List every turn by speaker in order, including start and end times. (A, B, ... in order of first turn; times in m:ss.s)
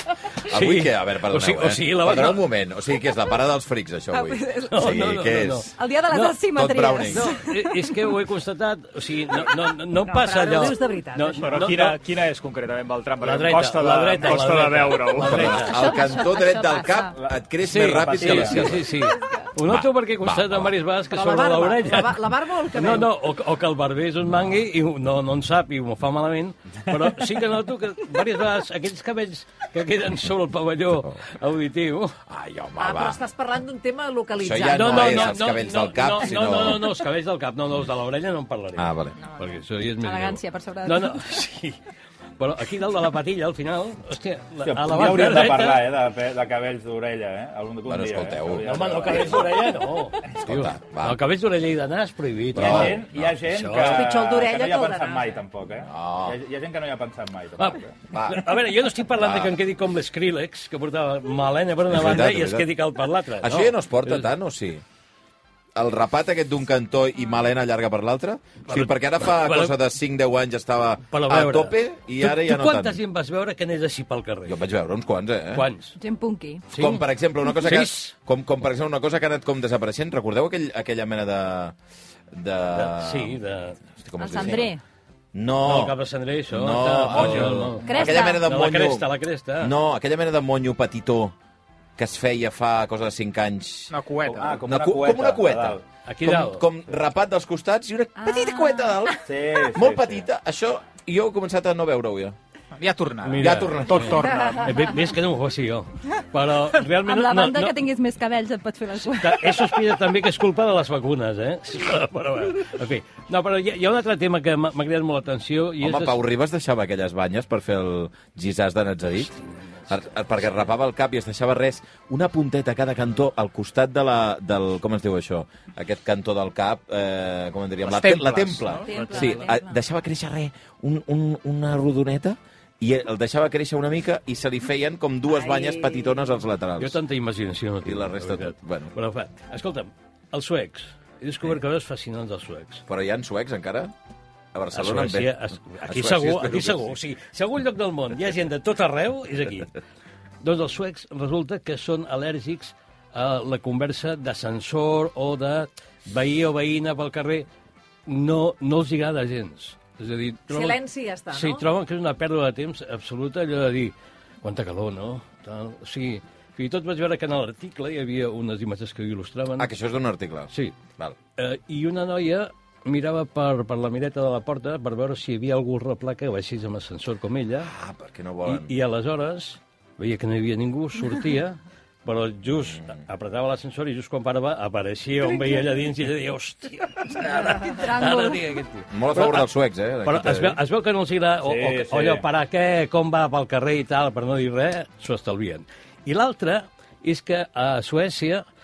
0:00.4-0:02.4 A
0:00.5-0:05.7 B
0:04.1-0:05.0 C
0:04.7-0:06.4 A
0:05.8-0:07.9 C
0:06.5-0:07.4 B
0:07.1-0:12.0 A
0:09.9-0:11.6 D
0:11.4-0:15.6 E
0:13.2-0:15.8 A
0:15.2-0:18.9 B
0:15.6-0:17.1 C
0:17.2-0:18.8 F
0:17.6-0:32.2 A
0:19.7-0:20.8 B
0:21.1-0:23.1 D
0:32.3-0:33.2 B
0:32.8-0:35.4 D
0:34.4-0:36.9 B
0:34.7-0:41.8 A
0:38.8-0:39.2 B
0:39.2-0:41.2 C
0:42.4-0:45.9 A
0:44.6-0:49.9 F
0:47.8-0:49.4 B
0:48.6-0:54.1 A
0:50.3-0:51.2 B
0:52.6-0:53.4 B
0:52.6-0:58.0 F
0:53.8-0:55.4 D
0:55.8-0:56.4 B
0:57.6-1:04.3 A
0:58.1-0:59.6 B
1:01.9-1:02.8 B
1:03.4-1:04.8 B
1:05.8-1:13.0 B
1:08.7-1:09.8 A
1:11.1-1:14.6 A
1:14.5-1:15.7 B
1:15.5-1:16.0 A
1:16.0-1:16.7 C
1:16.7-1:18.1 A
1:16.7-1:21.8 B
1:22.3-1:23.4 B
1:22.7-1:23.8 A
1:24.0-1:24.7 B
1:24.2-1:24.8 C
1:25.3-1:31.4 B
1:25.6-1:29.7 A
1:27.8-1:28.4 C
1:32.0-1:33.9 B
1:33.9-1:34.6 E
1:34.2-1:35.8 F
1:34.6-1:39.2 B
1:36.0-1:36.7 A
1:38.2-1:39.2 C
1:39.2-1:40.3 F
1:39.7-1:42.4 B
1:42.8-1:44.8 E
1:43.2-1:47.8 A
1:43.4-1:44.3 B
1:44.2-1:44.9 D
1:47.0-1:49.8 C
1:49.2-1:56.2 A
1:55.8-1:59.3 B
1:59.9-2:17.0 B
2:07.8-2:09.4 E
2:08.9-2:09.8 C
2:15.3-2:16.3 D
2:16.8-2:22.8 A
2:17.8-2:18.9 B
2:22.9-2:23.9 B
2:24.5-2:27.0 B
2:24.7-2:29.7 A
2:30.4-2:37.5 A
2:38.1-2:40.8 A
2:40.5-2:41.6 D
2:41.3-2:49.7 A
2:49.6-2:51.2 B
2:50.5-2:50.8 A
2:51.4-2:57.7 A
2:57.6-2:58.7 B
2:58.4-3:09.5 A
3:02.7-3:03.0 B
3:07.3-3:08.3 D
3:08.9-3:10.6 B
3:10.0-3:18.4 A
3:11.4-3:12.3 F